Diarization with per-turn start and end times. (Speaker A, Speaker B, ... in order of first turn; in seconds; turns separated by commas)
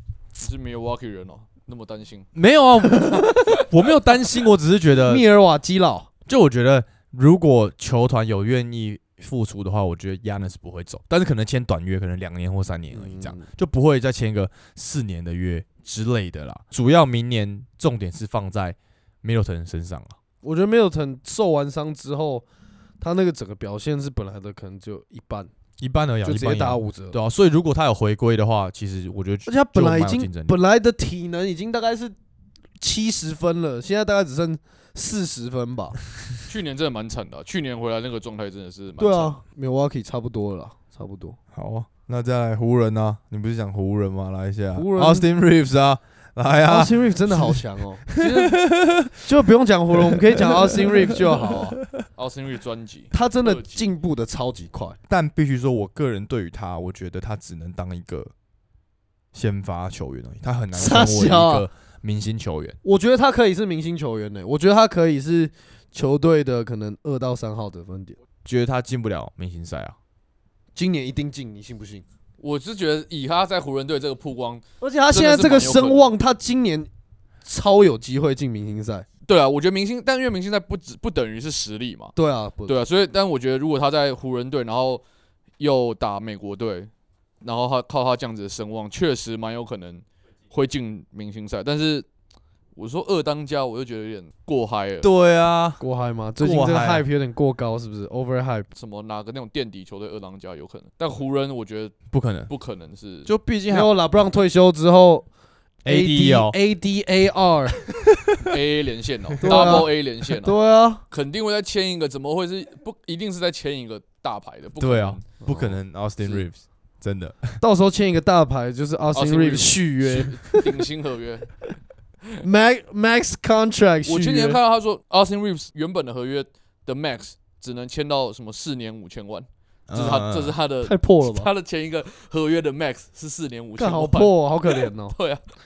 Speaker A: 0.4-2.3, Speaker B: 2.3-5.2, Speaker C: 5.0-6.1, Speaker B: 6.2-20.1, Speaker C: 12.9-13.5, Speaker C: 20.4-22.4, Speaker C: 23.0-25.5, Speaker B: 25.8-30.6, Speaker C: 26.2-27.2, Speaker C: 29.4-32.1, Speaker C: 32.8-36.0, Speaker A: 36.5-39.4, Speaker C: 39.0-41.4, Speaker B: 41.5-49.2, Speaker C: 44.7-45.3, Speaker C: 46.6-48.5, Speaker A: 48.2-48.5, Speaker C: 49.2-51.8, Speaker B: 50.0-52.0, Speaker A: 52.2-53.8, Speaker C: 53.1-55.0, Speaker B: 55.1-58.3, Speaker B: 59.3-62.8, Speaker C: 60.7-61.6, Speaker C: 62.8-68.2, Speaker B: 68.4-70.0, Speaker C: 70.8-72.0, Speaker A: 72.4-76.1, Speaker C: 74.8-76.9, Speaker C: 77.5-79.0, Speaker A: 79.3-82.1, Speaker C: 82.2-82.8, Speaker A: 82.7-85.0, Speaker A: 85.6-86.9, Speaker A: 87.4-92.0, Speaker A: 92.8-95.1, Speaker B: 95.0-95.8, Speaker C: 95.8-98.7, Speaker B: 96.4-97.0, Speaker A: 98.7-102.0, Speaker B: 102.1-102.5, Speaker A: 102.5-103.3, Speaker B: 103.2-103.9, Speaker C: 103.7-105.2, Speaker B: 105.8-106.5, Speaker C: 105.9-107.8, Speaker B: 108.0-108.6, Speaker A: 108.4-110.5, Speaker B: 109.4-109.8, Speaker C: 109.4-111.0, Speaker A: 111.1-115.2, Speaker B: 114.8-117.6, Speaker C: 115.5-115.8, Speaker C: 117.6-120.7, Speaker A: 119.1-121.5, Speaker C: 122.4-124.6, Speaker A: 124.1-135.4, Speaker B: 129.9-130.6, Speaker C: 130.8-131.5, Speaker C: 133.8-135.1